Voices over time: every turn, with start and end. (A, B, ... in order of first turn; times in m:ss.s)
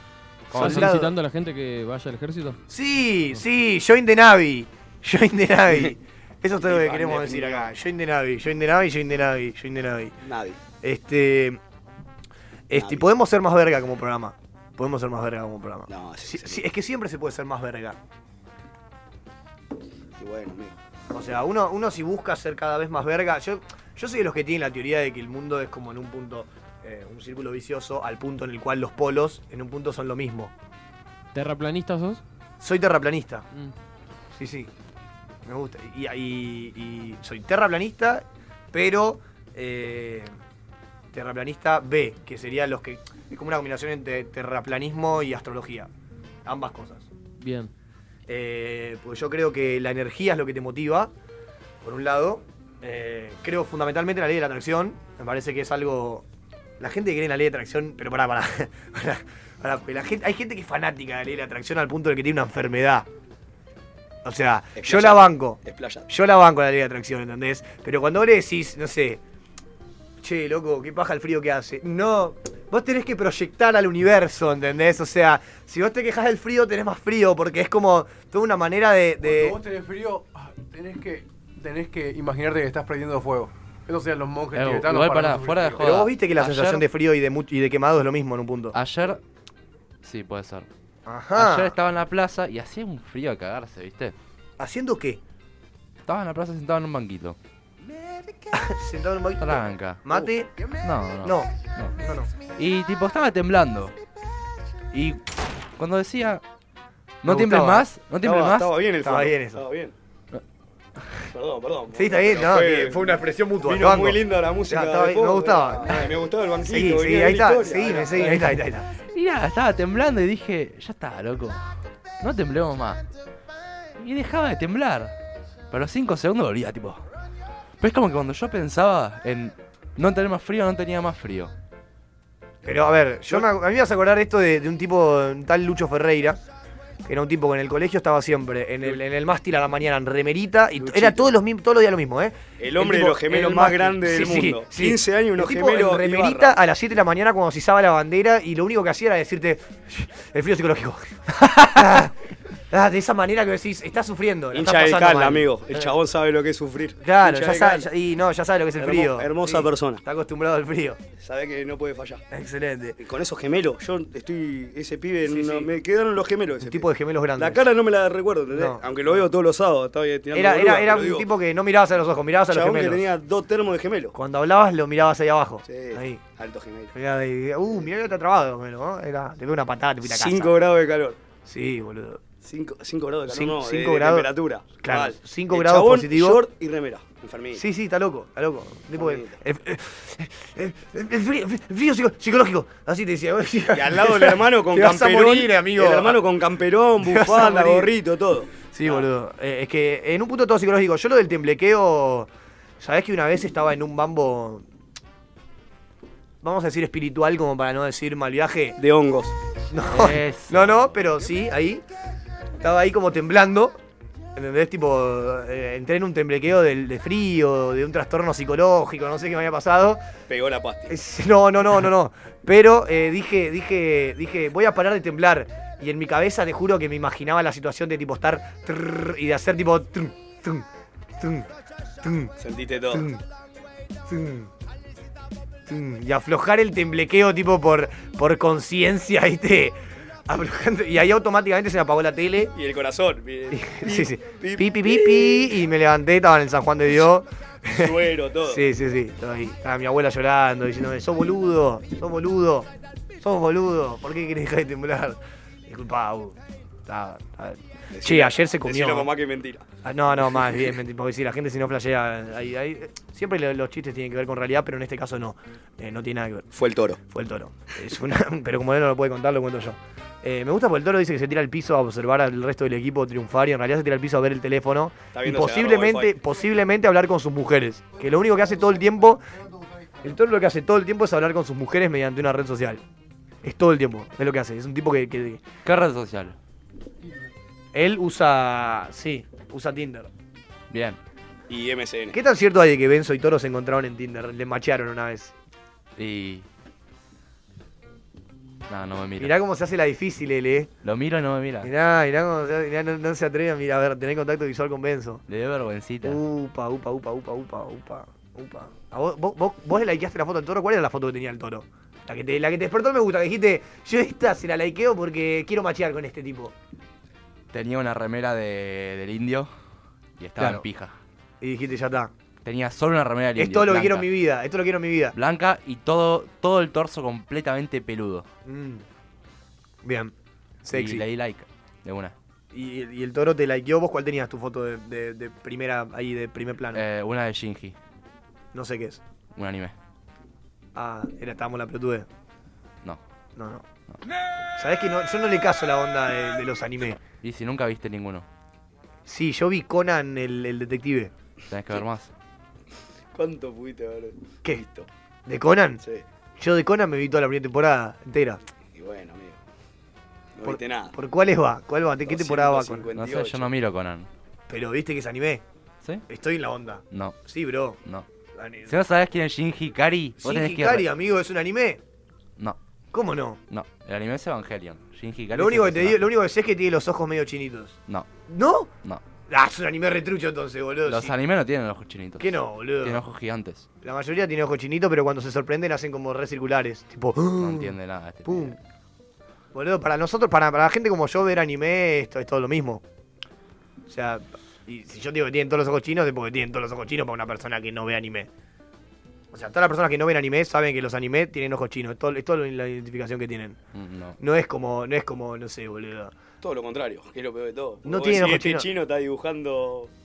0:00.5-0:00.9 A
0:00.5-0:01.1 B
0:00.6-0:02.6 C
0:02.7-0:10.2 B
0:06.6-0:07.7 D
0:10.2-0:10.6 D
0:10.8-0:11.6 B
0:12.7-0:18.0 B
0:12.8-0:13.1 D
0:15.9-0:16.7 D
0:20.2-0:20.8 D
0:21.1-0:30.5 B
0:31.3-0:32.2 C
0:32.6-0:33.5 B
0:34.4-0:34.7 B
0:35.4-0:40.3 B
0:41.1-0:45.9 B
0:46.4-0:47.1 B
0:47.4-0:47.7 C
0:48.3-0:51.1 B
0:51.8-0:56.2 B
0:56.8-1:03.1 B
1:04.2-1:09.2 B
1:04.8-1:06.1 D
1:10.2-1:19.6 B
1:19.2-1:25.8 E
1:24.5-1:26.9 A
1:25.8-1:28.8 B
1:28.7-1:29.2 A
1:30.0-1:30.7 A
1:31.1-1:31.8 B
1:31.4-1:34.2 A
1:34.6-1:35.2 B
1:36.0-1:37.4 A
1:38.5-1:40.5 B
1:39.4-1:40.0 A
1:40.8-1:42.0 A
1:41.2-1:42.3 B
1:42.6-1:43.9 A
1:44.9-1:45.2 A
1:45.8-1:46.4 A
1:47.2-1:48.7 A
1:47.3-1:47.9 B
1:48.2-1:49.9 D
1:49.0-1:49.6 B
1:51.3-1:58.6 D
1:51.9-1:58.9 B
1:59.1-2:01.6 A
2:02.2-2:03.0 A
2:04.0-2:05.2 A
2:05.7-2:07.0 A
2:07.8-2:11.5 A
2:12.6-2:16.4 B
2:17.0-2:32.2 B
2:20.8-2:21.3 D
2:22.6-2:26.6 D
2:32.7-2:35.5 B
2:34.5-2:37.9 D
2:37.0-2:41.0 B
2:38.8-2:40.0 D
2:41.2-2:42.2 D
2:42.3-2:43.0 B
2:43.0-2:46.8 D
2:45.2-2:45.7 B
2:46.6-2:47.6 B
2:47.4-2:51.3 D
2:48.5-2:49.2 B
2:50.3-2:53.1 B
2:52.5-2:54.1 D
2:54.1-2:56.2 B
2:55.6-2:56.9 D
2:56.9-3:00.6 B
3:00.0-3:01.2 D
3:01.4-3:02.2 B
3:02.4-3:07.6 D
3:03.3-3:04.3 B
3:04.8-3:06.4 B
3:07.6-3:16.2 B
3:09.0-3:09.4 D
3:13.7-3:19.0 D
3:17.0-3:17.9 B
3:18.7-3:24.6 B
3:26.4-3:28.8 B
3:28.8-3:29.4 D
3:29.7-3:31.8 B
3:29.9-3:30.7 A
3:32.6-3:33.8 B
3:34.4-3:40.0 B
3:40.3-3:41.0 D
3:40.9-3:50.7 B
3:51.2-3:51.5 B
3:52.0-3:52.3 B
3:52.4-3:53.1 D
3:52.9-3:53.2 B
3:54.1-3:54.5 B
3:55.7-4:02.5 B
4:02.5-4:05.5 D
4:03.5-4:12.7 B
4:07.7-4:08.6 D
4:13.2-4:19.1 B
4:17.9-4:19.7 D
4:19.8-4:26.5 B
4:26.5-4:27.0 D
4:27.1-4:39.2 B
4:35.1-4:36.2 D
4:39.4-4:40.0 E
4:40.0-4:42.8 B
4:43.4-4:45.4 B
4:45.6-4:46.4 A
4:47.7-4:50.1 B
4:50.7-4:51.0 A
4:51.5-4:52.2 D
4:52.1-4:55.3 B
4:56.0-4:56.4 A
4:58.7-4:59.3 A
4:59.2-5:00.7 B
5:00.8-5:01.7 A
5:01.6-5:05.2 B
5:05.3-5:06.2 A
5:06.0-5:16.5 B
5:17.5-5:19.5 A
5:20.2-5:20.9 A
5:20.4-5:20.6 B
5:21.4-5:22.1 B
5:22.4-5:24.1 A
5:23.4-5:25.2 B
5:25.2-5:28.3 A
5:28.4-5:28.8 B
5:29.8-5:30.1 B
5:30.6-5:31.0 B
5:30.7-5:32.1 A
5:32.5-5:36.8 B
5:36.7-5:37.8 A
5:38.5-5:39.0 B
5:39.4-5:39.7 A
5:40.8-5:42.1 B
5:43.4-5:43.6 B
5:44.6-5:47.0 B
5:47.2-5:48.3 A
5:49.1-5:51.1 B
5:51.5-5:52.1 A
5:53.1-5:54.9 D
5:55.3-5:55.8 B
5:56.4-5:58.4 B
5:58.7-5:59.4 D
6:00.4-6:00.9 D
6:00.4-6:02.9 B
6:02.1-6:03.5 D
6:03.0-6:04.1 A
6:04.5-6:05.4 B
6:06.1-6:07.8 B
6:06.9-6:07.2 A
6:08.4-6:08.8 B
6:08.7-6:10.9 A
6:10.2-6:11.8 B
6:12.9-6:13.4 B
6:13.5-6:16.1 A
6:15.3-6:17.8 B
6:18.3-6:18.7 B
6:19.3-6:21.1 B
6:20.9-6:23.7 A
6:22.2-6:23.0 B
6:23.8-6:28.6 B
6:27.4-6:28.6 A
6:29.5-6:32.8 B
6:33.9-6:38.3 B
6:39.3-6:43.6 B
6:43.7-6:44.2 A
6:44.2-6:46.1 B
6:46.4-6:49.9 D
6:47.8-6:48.7 B